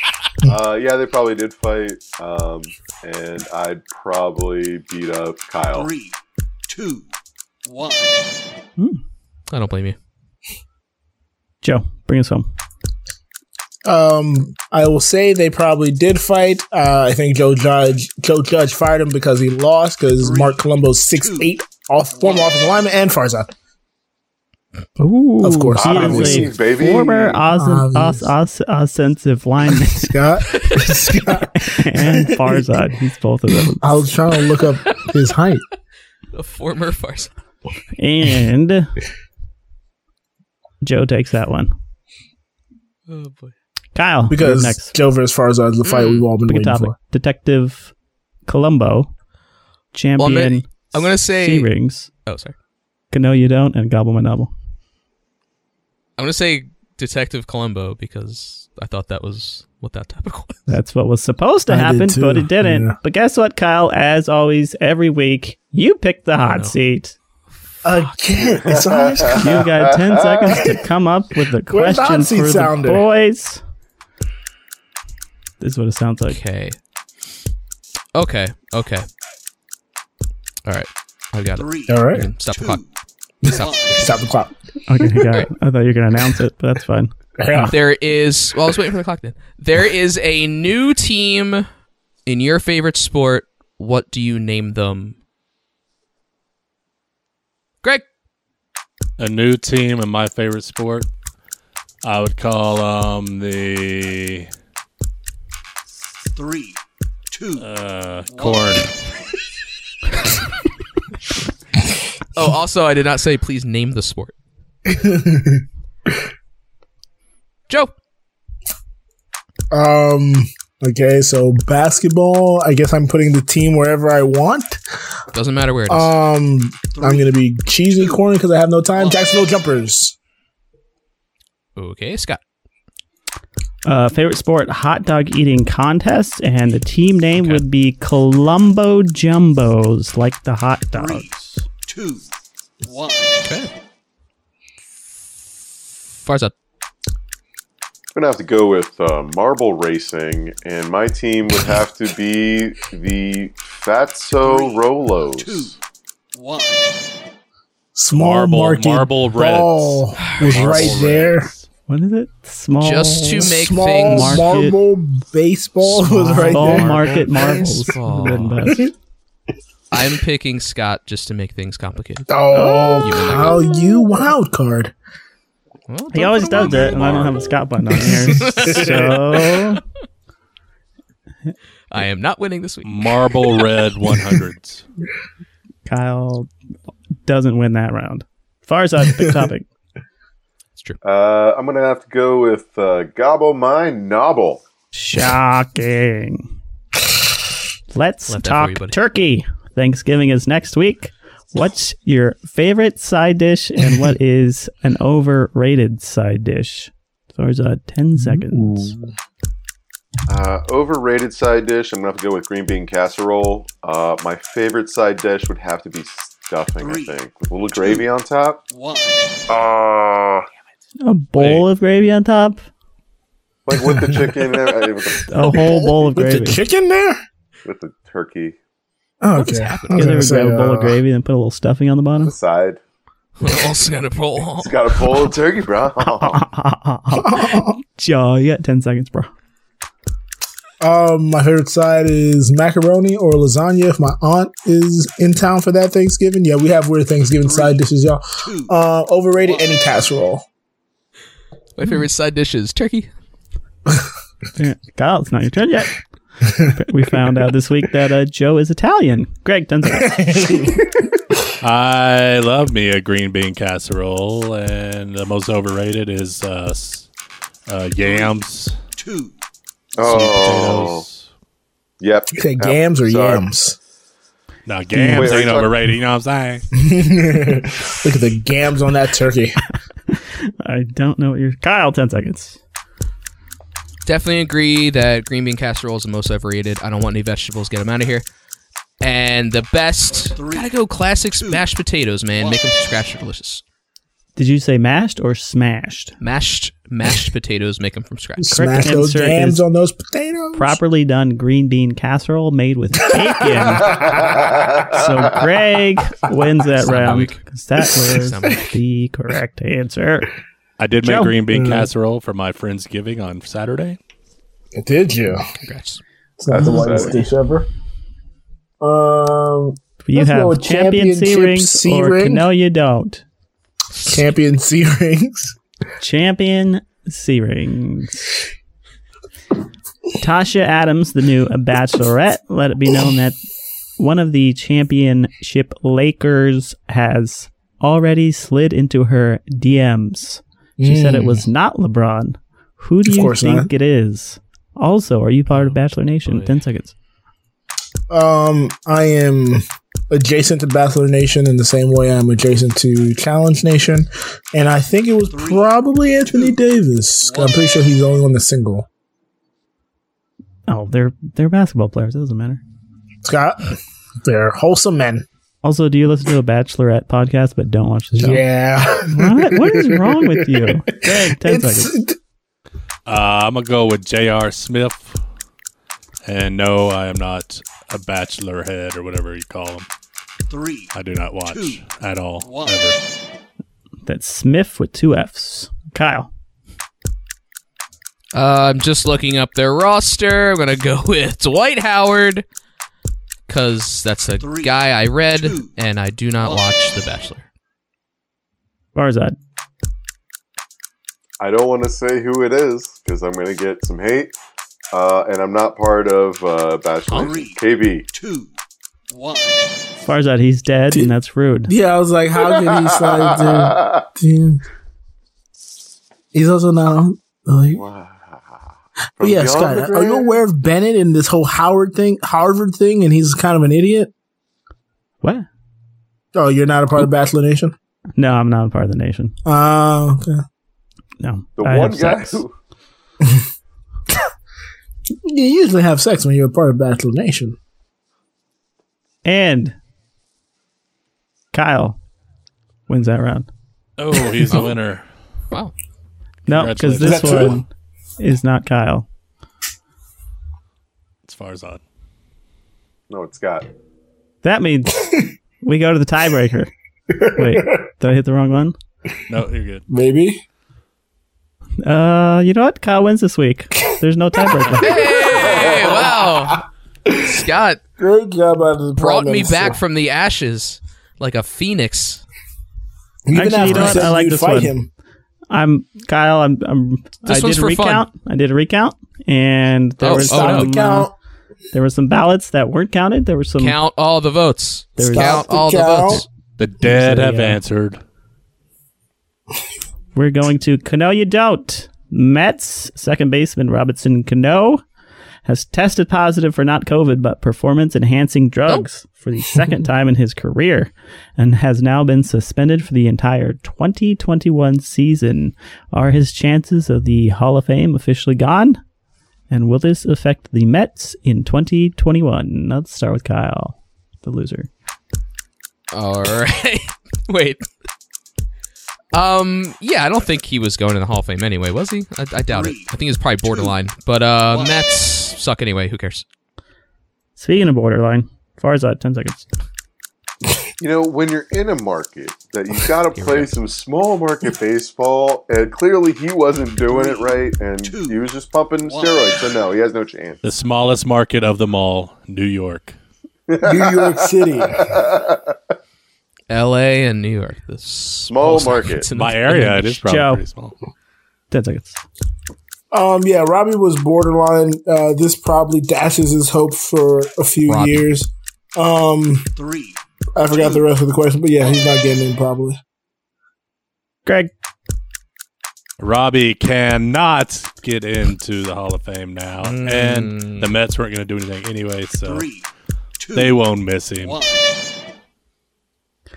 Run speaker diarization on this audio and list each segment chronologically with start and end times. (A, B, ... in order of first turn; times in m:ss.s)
0:00.5-0:05.9 A
0:05.7-0:06.2 B
0:06.7-0:07.1 B
0:07.7-0:08.3 B
0:09.5-0:10.0 C
0:11.6-0:12.5 D
0:13.8-0:23.5 E
0:20.2-0:21.5 B
0:22.1-0:22.6 B
0:25.0-0:30.2 D
0:25.4-0:26.6 E
0:25.8-0:27.4 A
0:27.5-0:28.3 E
0:29.9-0:32.9 E
0:31.4-0:34.0 D
0:33.8-0:35.6 E
0:36.3-0:37.3 C
0:38.0-0:38.9 D
0:40.8-0:41.7 D
0:43.1-0:43.5 C
0:44.0-0:44.9 D
0:44.3-0:47.0 E
0:45.8-0:46.3 C
0:46.5-0:47.9 D
0:48.5-0:49.1 D
0:49.9-0:50.7 D
0:50.2-0:51.7 C
0:51.3-0:52.1 D
0:52.3-0:52.6 C
0:53.1-0:54.5 D
0:56.2-1:00.7 C
1:00.7-1:07.2 D
1:01.7-1:03.0 E
1:06.5-1:06.7 C
1:07.8-1:09.7 E
1:08.4-1:10.6 A
1:09.3-1:13.6 D
1:10.4-1:10.8 E
1:11.7-1:13.1 E
1:15.6-1:16.4 D
1:16.3-1:16.8 C
1:18.2-1:19.1 C
1:20.6-1:22.8 C
1:21.5-1:24.1 B
1:21.9-1:22.3 E
1:23.4-1:24.5 E
1:24.9-1:27.8 D
1:27.4-1:27.8 E
1:27.7-1:31.7 C
1:32.3-1:35.2 C
1:39.2-1:41.1 F
1:42.0-1:44.5 F
1:46.3-1:46.8 B
1:47.3-1:47.7 B
1:47.6-1:48.9 F
1:48.3-1:48.7 B
1:52.3-1:54.3 C
1:54.9-1:55.6 E
1:57.7-1:57.9 C
1:59.7-2:04.8 E
2:05.3-2:06.1 C
2:05.9-2:10.2 E
2:06.9-2:07.3 B
2:07.9-2:08.2 B
2:08.9-2:09.2 B
2:11.8-2:12.4 C
2:13.8-2:21.6 D
2:20.9-2:21.3 B
2:21.9-2:22.3 B
2:22.8-2:23.5 B
2:23.4-2:23.7 C
2:26.2-2:26.5 C
2:28.1-2:35.8 A
2:34.4-2:35.8 B
2:36.3-2:37.0 B
2:38.0-2:41.5 E
2:38.1-2:41.7 F
2:40.3-2:40.8 C
2:41.9-2:43.5 D
2:42.8-2:44.5 C
2:43.4-2:47.6 E
2:44.1-2:44.8 D
2:46.0-2:48.9 D
2:46.3-2:48.6 C
2:49.9-2:52.3 C
2:52.3-2:54.9 E
2:52.5-2:53.0 D
2:53.0-2:53.7 C
2:55.9-2:57.4 C
2:56.1-2:59.8 D
2:58.2-2:59.1 E
2:58.4-2:59.4 C
3:01.9-3:03.6 C
3:02.8-3:04.8 F
3:05.9-3:06.5 D
3:07.3-3:09.7 D
3:11.0-3:14.6 A
3:14.9-3:16.5 D
3:17.9-3:28.9 D
3:18.3-3:19.0 C
3:28.2-3:29.1 E
3:30.3-3:38.6 A
3:36.8-3:37.2 B
3:37.7-3:38.1 B
3:38.7-3:39.4 B
3:39.5-3:40.5 A
3:41.0-3:42.6 D
3:41.4-3:41.6 F
3:43.7-3:45.3 A
3:43.8-3:44.2 E
3:45.3-3:46.6 D
3:45.4-3:47.2 E
3:47.6-3:48.6 A
3:49.2-3:51.0 E
3:49.4-3:50.1 C
3:49.9-3:52.3 D
3:52.2-3:52.8 A
3:53.4-3:55.0 C
3:54.6-3:56.4 A
3:56.0-3:59.3 D
3:57.1-3:57.8 E
4:00.8-4:10.4 E
4:07.4-4:07.9 B
4:08.4-4:08.7 B
4:09.4-4:09.7 B
4:11.8-4:13.1 C
4:14.6-4:20.2 D
4:20.0-4:21.0 E
4:21.6-4:27.1 F
4:27.7-4:28.8 F
4:28.0-4:28.4 B
4:29.0-4:29.4 B
4:30.0-4:31.0 A
4:30.0-4:31.3 F
4:32.0-4:33.4 A
4:32.3-4:33.8 E
4:34.7-4:36.7 F
4:34.9-4:35.3 D
4:35.1-4:35.8 A
4:36.8-4:39.6 E
4:40.1-4:42.6 D
4:44.0-4:48.3 C
4:49.0-4:53.6 C
4:50.3-4:50.8 B
4:51.4-4:51.6 B
4:52.3-4:52.6 B
4:54.4-4:56.2 D
4:56.2-4:58.5 C
4:58.4-5:00.8 E
4:58.5-4:59.6 D
5:00.6-5:04.0 D
5:03.1-5:04.2 E
5:04.0-5:05.0 A
5:04.9-5:10.3 D
5:06.8-5:07.4 C
5:08.1-5:08.8 C
5:10.8-5:14.0 F
5:11.0-5:11.3 D
5:11.5-5:11.9 E
5:14.8-5:15.4 E
5:15.6-5:16.0 C
5:16.4-5:17.7 E
5:16.5-5:17.2 A
5:16.6-5:17.2 D
5:18.8-5:22.5 E
5:20.0-5:23.2 D
5:23.9-5:24.2 C
5:24.0-5:25.6 E
5:26.0-5:28.3 D
5:30.2-5:33.4 D
5:34.0-5:46.9 D
5:40.8-5:41.4 E
5:43.0-5:43.7 E
5:45.5-5:46.6 C
5:48.1-5:58.9 E
5:55.3-5:55.7 B
5:56.3-5:56.6 B
5:57.2-5:57.7 B
6:00.7-6:02.6 D
6:03.2-6:05.3 E
6:05.6-6:08.5 D
6:08.2-6:12.2 E
6:09.1-6:12.0 D
6:13.1-6:15.2 F
6:16.2-6:19.9 F
6:20.5-6:20.9 B
6:20.9-6:23.0 F
6:21.4-6:21.8 B
6:22.4-6:22.8 B
6:24.1-6:26.3 D
6:28.3-6:32.4 C
6:33.5-6:37.4 C
6:34.4-6:34.8 B
6:35.3-6:35.8 B
6:39.0-6:39.4 D
6:41.4-6:44.3 A
6:44.9-6:48.1 A
6:47.1-6:47.6 B
6:48.1-6:48.5 B
6:49.1-6:49.7 B
6:50.0-6:51.7 D
6:51.7-6:54.6 E
6:52.4-6:54.0 A
6:56.3-6:57.8 E
6:57.7-6:58.6 A
6:59.2-7:04.1 E
6:59.2-7:00.4 A
7:05.2-7:05.5 D
7:06.3-7:07.8 E
7:08.2-7:09.4 D
7:09.4-7:10.4 E
7:11.2-7:12.4 D
7:11.6-7:12.5 A
7:15.3-7:17.6 E
7:19.2-7:19.8 D
7:21.5-7:22.0 D
7:22.9-7:23.5 D
7:24.0-7:25.1 F
7:26.5-7:27.5 F
7:26.5-7:29.1 D
7:27.0-7:27.6 E
7:31.3-7:31.8 F
7:33.1-7:33.7 A
7:34.4-7:35.1 D
7:35.0-7:35.3 E
7:35.6-7:36.7 D
7:37.1-7:37.8 E
7:37.3-7:38.8 D
7:39.3-7:39.8 F
7:39.9-7:40.4 E
7:41.8-7:45.1 D
7:44.8-7:47.8 C
7:45.2-7:46.5 E
7:48.0-7:49.8 E
7:49.0-7:52.2 C
7:53.2-7:54.9 E
7:53.3-7:54.7 D
7:53.7-7:54.1 C
7:55.5-8:01.1 D
7:57.3-7:58.0 C
8:00.0-8:00.7 C
8:00.1-8:01.2 E
8:01.7-8:03.8 D
8:03.6-8:06.3 C
8:05.0-8:05.3 D
8:05.0-8:06.3 E
8:06.6-8:08.0 F
8:06.8-8:07.6 D
8:10.2-8:14.8 D
8:15.5-8:28.8 D
8:29.5-8:34.7 D
8:35.9-8:37.6 C
8:39.1-8:46.2 C
8:42.5-8:42.9 B
8:43.4-8:43.7 B
8:44.5-8:44.8 B
8:47.4-8:49.5 D
8:50.8-9:00.4 A
8:53.1-8:53.6 C
8:56.9-8:58.2 B
8:58.8-8:59.3 B
9:00.4-9:03.0 F
9:03.5-9:05.4 A
9:03.6-9:05.0 E
9:06.5-9:10.0 C
9:08.3-9:09.1 A
9:09.1-9:10.7 F
9:09.5-9:10.4 D
9:11.5-9:12.0 D
9:12.9-9:19.5 E
9:17.7-9:18.0 C
9:19.6-9:20.0 B
9:20.4-9:22.8 E
9:24.3-9:24.5 D
9:26.0-9:32.5 F
9:29.6-9:30.7 C
9:32.2-9:33.6 B
9:33.3-9:34.4 F
9:34.2-9:34.9 B